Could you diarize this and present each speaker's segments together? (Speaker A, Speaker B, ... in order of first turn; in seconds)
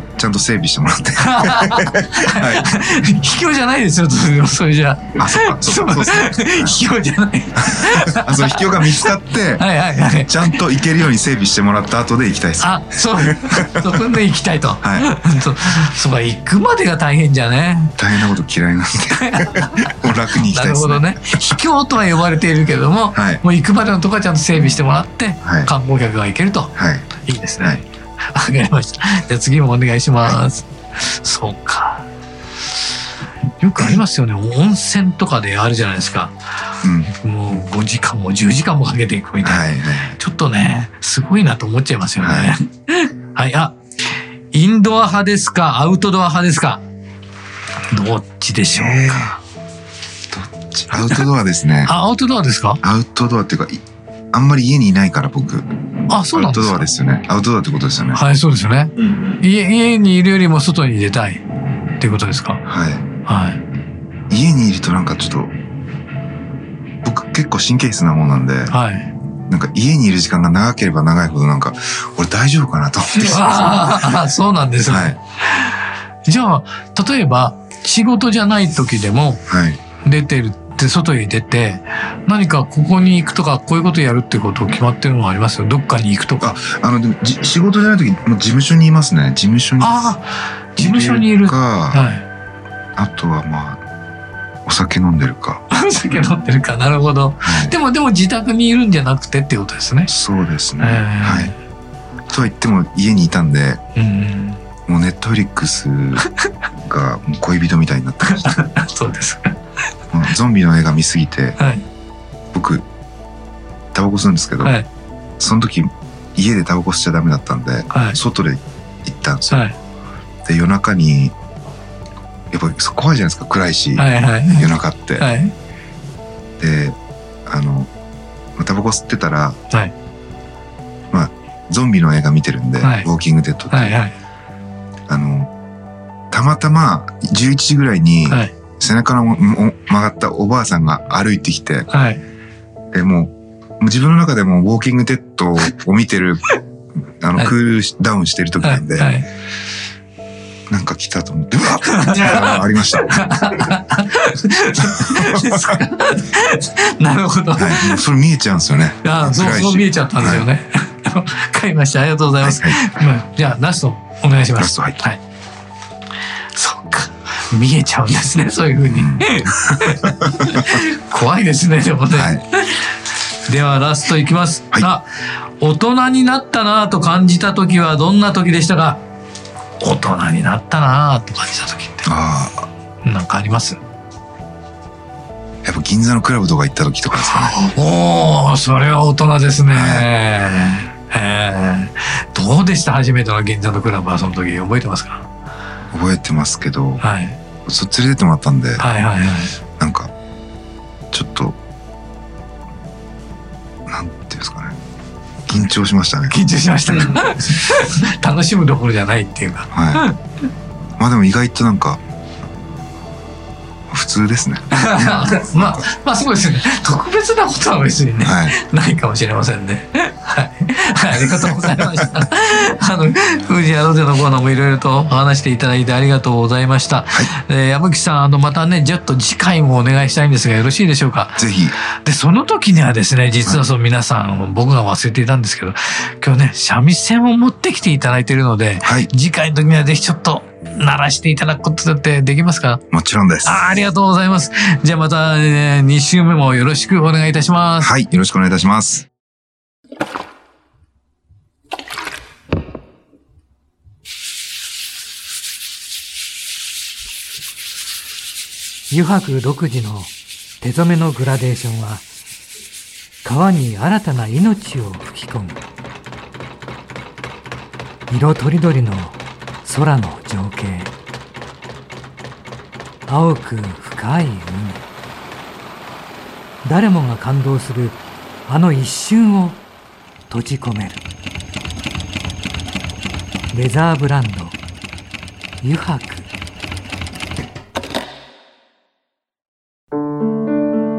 Speaker A: 0.1-2.7, 5.2-6.7, 7.5-14.0, 14.8-15.1, 18.0-21.5, 23.1-23.4, 25.4-25.7, 26.8-27.1, 36.8-37.1, 39.4-40.2, 42.2-42.5, 48.7-49.4, 50.3-51.9, 52.8-55.7, 56.3-58.2, 62.6-63.0, 64.3-65.5, 67.0-68.7, 69.5-74.1, 74.9-75.2, 79.5-79.8, 86.4-90.0, 90.8-92.1, 93.0-93.8, 94.7-95.6, 97.4-97.7, 100.1-101.5, 102.3-103.8, 104.9-106.3, 106.8-108.6, 110.1-111.6, 112.5-112.8, 113.9-114.8, 115.4-119.6, 120.4-121.3, 122.5-125.3, 126.6-127.9, 128.6-129.6, 131.1-134.0, 135.1-135.5, 136.3-141.9, 142.9-149.2, 150.7-153.8, 154.8-155.8, 157.5-160.4, 162.4-162.8, 164.6-165.0, 168.9-170.8, 172.1-172.4, 182.1-182.7, 185.6-187.6, 189.7-190.1, 195.9-197.0, 197.7-198.8, 199.8-200.1, 201.1-201.6, 203.9-204.8, 205.5-207.3, 209.7-210.0, 211.0-212.0, 213.9-215.8, 218.2-218.5, 221.5-221.8, 231.4-231.7, 238.8-239.1, 242.9-243.7, 247.8-249.1
Speaker B: 1.2-10.6, 12.6-18.0, 19.1-32.0, 33.6-36.4, 37.1-43.8, 44.5-46.8, 47.9-49.4, 50.9-51.2, 51.8-52.8, 56.1-56.9, 58.1-61.4, 62.0-62.6, 63.2-63.6, 68.7-69.1, 73.1-79.4, 80.0-86.5, 89.8-92.2, 95.7-100.1, 100.8-101.5, 104.0-104.6, 106.2-106.5, 108.2-109.5, 111.6-111.8, 114.6-114.9, 117.9-118.2, 119.5-119.8, 124.0-125.5, 132.8-133.1, 133.7-134.1, 138.3-138.5, 141.9-142.2, 148.6-149.3, 151.8-158.0, 159.0-165.2, 166.5-172.9, 173.4-175.0, 175.6-179.0, 179.8-182.1, 183.0-183.8, 187.1-195.3, 197.0-197.4, 198.8-199.5, 206.3-210.2, 214.7-242.8, 243.4-247.9
Speaker C: 258.9-262.0, 263.2-265.6, 268.1-270.9, 273.1-274.8, 276.6-279.6, 280.3-281.0, 283.5-284.6, 285.6-286.3